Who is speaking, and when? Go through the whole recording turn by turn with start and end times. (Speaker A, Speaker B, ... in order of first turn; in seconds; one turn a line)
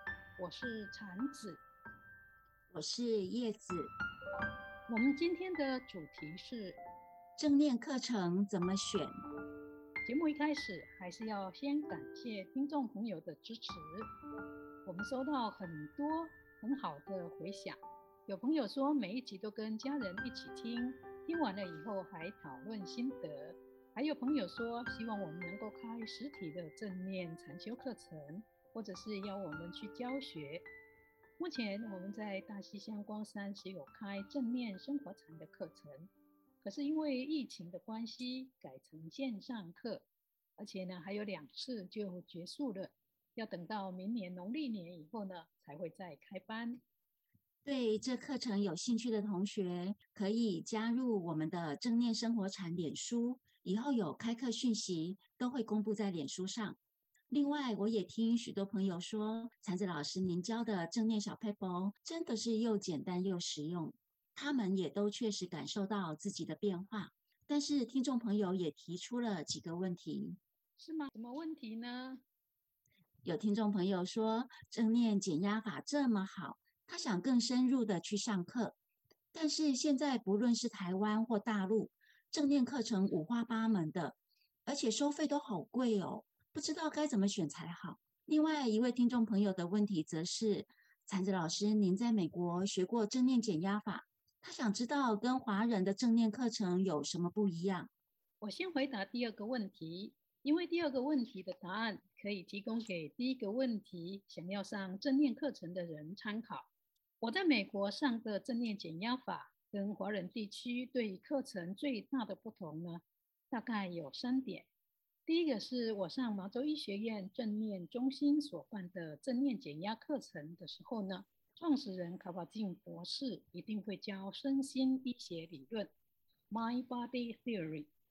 Speaker A: 0.4-1.6
Speaker B: 2.7-3.9
Speaker A: 4.9-6.8
Speaker B: 7.4-9.2
Speaker A: 10.1-14.1
Speaker A: 14.8-30.7
Speaker A: 31.4-40.1
Speaker A: 40.6-46.8
Speaker B: 47.6-56.8
Speaker B: 57.3-70.4
Speaker A: 70.8-72.2
Speaker B: 73.2-78.8
Speaker B: 79.3-97.9
Speaker A: 98.4-106.7
Speaker A: 107.2-114.7
Speaker A: 115.3-125.9
Speaker A: 126.5-127.9